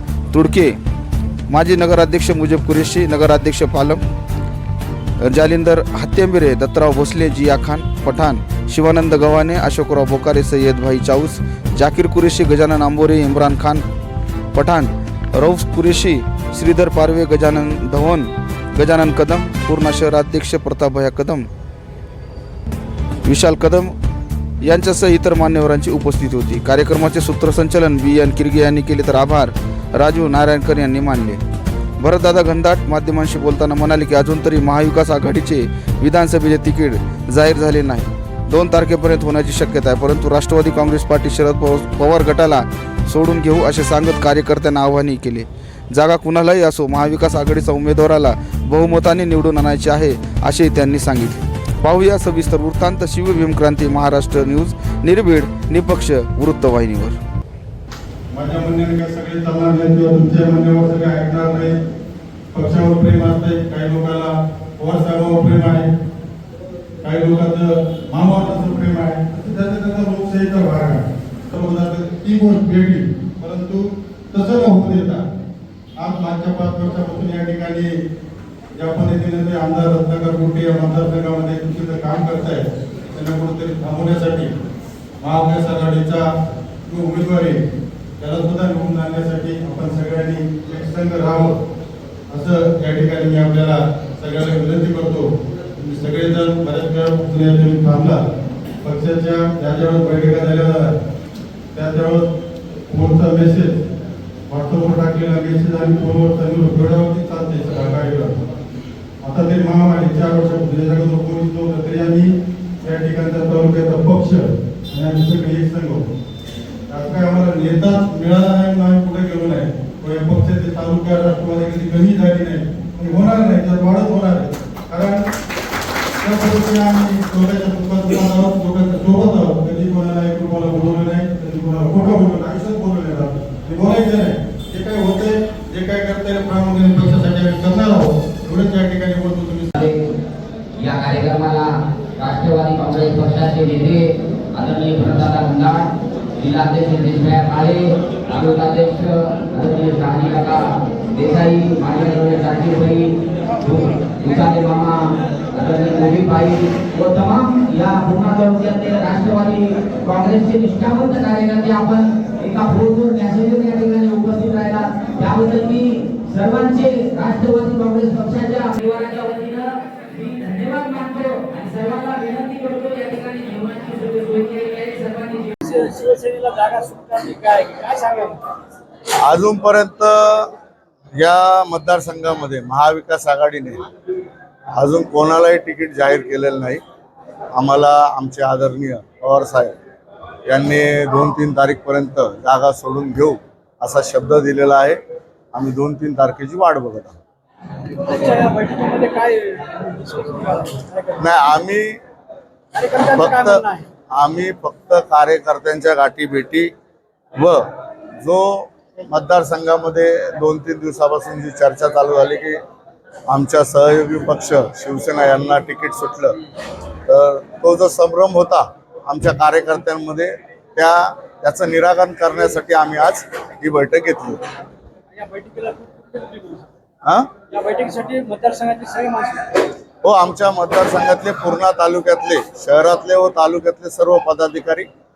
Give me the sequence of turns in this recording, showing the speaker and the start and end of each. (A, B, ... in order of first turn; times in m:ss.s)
0:00.3-0:00.8 A
0:01.5-0:04.0 A
0:05.2-0:13.8 A
0:14.5-0:21.5 A
0:23.2-0:23.9 A
0:24.6-0:31.4 A
0:32.0-0:57.2 A
0:58.3-1:01.8 B
1:02.5-1:05.9 B
1:07.0-1:15.2 B
1:16.0-1:18.0 B
1:18.7-1:24.5 B
1:25.2-1:26.3 B
1:26.8-1:27.6 B
1:28.2-1:31.6 B
1:32.3-1:38.2 B
1:38.8-1:41.0 B
1:41.7-1:42.3 B
1:42.9-1:43.8 B
1:44.5-1:48.4 B
1:49.2-1:56.0 B
1:56.9-2:05.3 B
2:06.2-2:19.7 B
2:19.7-2:20.0 C
2:20.8-2:55.6 C
2:55.6-2:58.4 D
2:59.2-3:00.5 E
3:01.2-3:03.8 E
3:04.7-3:06.8 E
3:07.5-3:09.8 E
3:10.4-3:15.0 E
3:15.5-3:17.2 E
3:18.0-3:21.0 D
3:21.2-3:22.0 E
3:22.7-3:23.8 D
3:23.1-3:26.7 E
3:27.4-3:27.6 E
3:28.2-3:32.6 E
3:33.3-3:36.4 E
3:37.0-3:44.4 E
3:45.1-3:46.6 D
3:47.0-3:47.3 E
3:47.5-3:49.7 D
3:50.0-3:54.9 E